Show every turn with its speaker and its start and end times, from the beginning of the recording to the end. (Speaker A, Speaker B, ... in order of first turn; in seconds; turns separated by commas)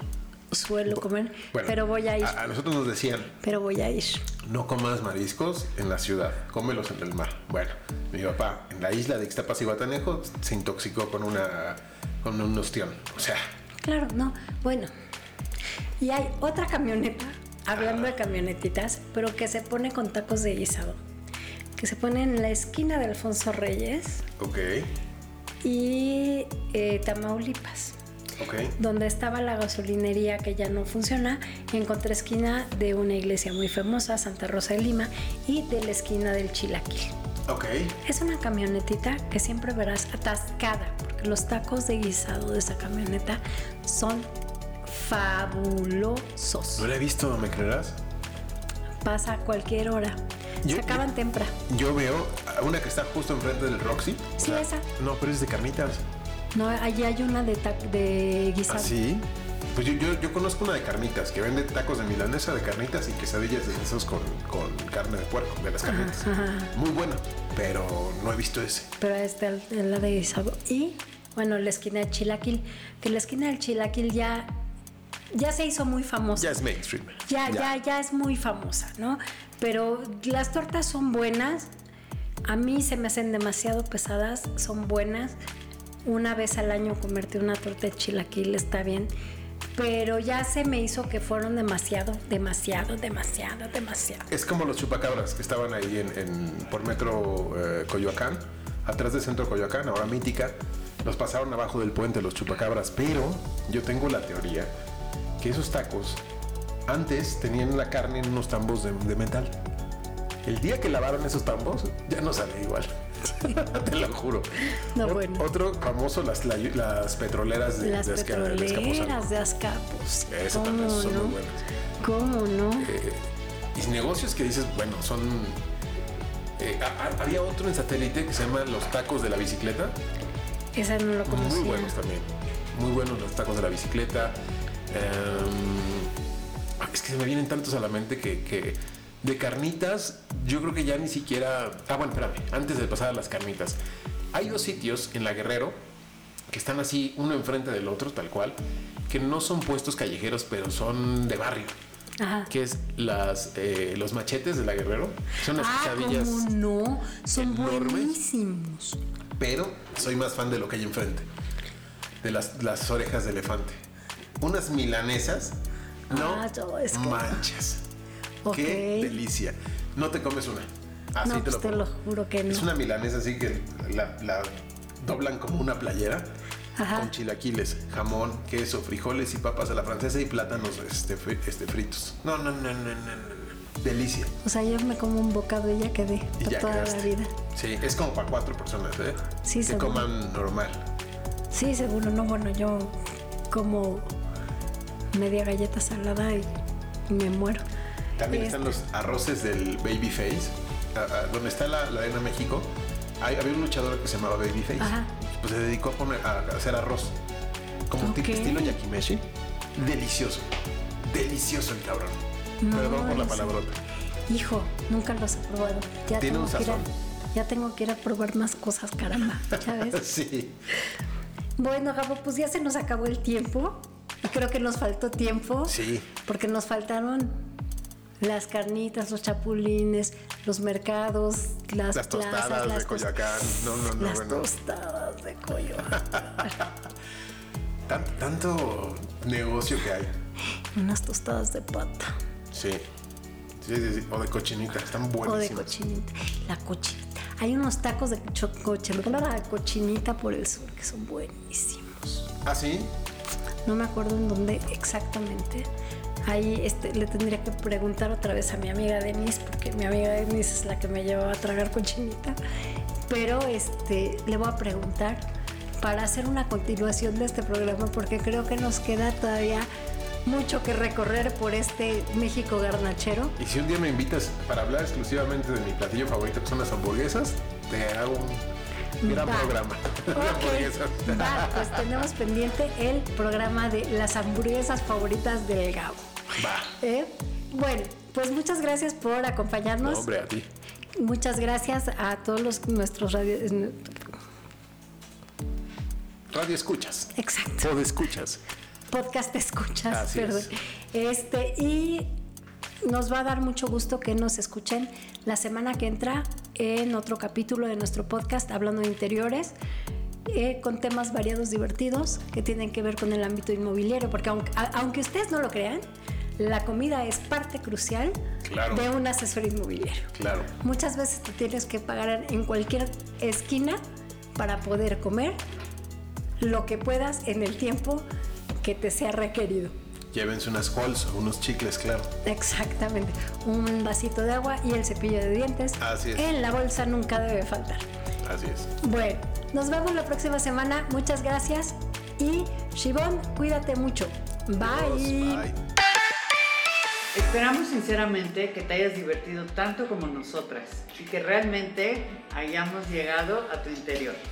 Speaker A: 0.5-2.4, Speaker B: 0.9-3.4, Speaker A: 3.4-4.3, Speaker B: 4.4-13.4, Speaker A: 13.8-14.9, Speaker A: 16.0-21.0, Speaker B: 17.8-18.1, Speaker A: 21.8-24.3, Speaker B: 24.4-24.9, Speaker A: 25.6-27.9, Speaker B: 28.4-28.7, Speaker A: 28.8-37.1, Speaker B: 37.5-38.0, Speaker A: 38.0-44.3, Speaker A: 44.9-46.9, Speaker B: 46.8-48.0, Speaker A: 49.0-51.6, Speaker B: 50.6-51.0, Speaker B: 51.6-56.0, Speaker A: 54.4-54.9, Speaker A: 56.5-58.9, Speaker B: 58.7-68.9, Speaker A: 65.8-66.7, Speaker A: 69.0-74.5, Speaker A: 75.3-76.5, Speaker B: 76.3-77.7, Speaker A: 77.3-81.7, Speaker A: 82.5-85.3, Speaker A: 86.0-89.1, Speaker A: 89.7-94.3, Speaker B: 94.3-104.7, Speaker B: 105.4-106.2, Speaker B: 106.9-109.5, Speaker B: 110.4-119.3, Speaker A: 114.9-115.4, Speaker A: 117.8-121.4, Speaker B: 120.3-121.6, Speaker A: 122.0-122.9, Speaker B: 122.8-125.6, Speaker B: 126.6-130.0, Speaker A: 130.7-131.9, Speaker B: 131.2-134.3, Speaker B: 134.9-136.1, Speaker B: 136.8-143.8, Speaker B: 144.3-145.8, Speaker B: 146.5-148.6, Speaker B: 149.1-151.7, Speaker A: 152.2-152.5, Speaker B: 152.5-156.5, Speaker A: 155.5-159.0, Speaker B: 157.3-158.1, Speaker B: 159.4-161.3, Speaker B: 162.2-163.8, Speaker B: 164.4-167.8, Speaker A: 166.1-167.4, Speaker A: 168.4-169.1, Speaker B: 168.5-171.9, Speaker A: 171.2-172.7, Speaker B: 172.5-176.3, Speaker A: 176.8-177.1, Speaker B: 176.9-184.3, Speaker A: 184.4-187.3, Speaker B: 186.4-190.8, Speaker A: 189.4-190.1, Speaker A: 191.5-192.9, Speaker A: 193.5-194.1, Speaker A: 195.1-196.5, Speaker A: 197.1-197.6, Speaker B: 198.2-207.2, Speaker A: 198.3-198.8, Speaker A: 204.8-205.1, Speaker B: 207.9-210.5, Speaker A: 208.0-208.8, Speaker B: 211.0-212.2, Speaker A: 212.6-213.5, Speaker B: 212.7-213.8, Speaker A: 214.3-220.0, Speaker B: 216.2-216.9, Speaker B: 219.5-220.6, Speaker A: 221.6-227.4, Speaker B: 225.7-226.1, Speaker A: 228.2-236.6, Speaker B: 231.9-234.5, Speaker B: 236.0-236.7, Speaker B: 237.9-240.1, Speaker A: 240.7-242.1, Speaker B: 242.5-242.8, Speaker B: 243.6-245.7, Speaker A: 245.2-252.3, Speaker B: 252.4-252.9, Speaker A: 253.7-255.7, Speaker A: 256.2-262.4, Speaker A: 263.1-265.2, Speaker A: 265.8-269.7, Speaker A: 270.2-273.4, Speaker B: 273.4-278.5, Speaker A: 279.0-279.6, Speaker B: 279.0-281.9, Speaker A: 280.1-286.1, Speaker B: 286.4-286.7, Speaker A: 286.8-290.1, Speaker B: 289.8-290.5, Speaker A: 291.0-294.1, Speaker B: 296.3-298.4, Speaker A: 297.1-297.7, Speaker A: 298.9-302.1, Speaker B: 299.9-300.5, Speaker A: 302.8-309.5, Speaker A: 310.3-315.8, Speaker A: 316.4-318.2, Speaker B: 318.4-318.9, Speaker A: 318.7-323.8, Speaker B: 320.1-320.5, Speaker A: 324.4-325.4, Speaker A: 326.4-328.0, Speaker A: 328.6-329.7, Speaker B: 330.1-332.1, Speaker A: 332.2-337.9, Speaker B: 335.8-336.3, Speaker B: 338.2-338.7, Speaker A: 338.8-345.4, Speaker B: 344.6-345.6, Speaker C: 347.1-354.2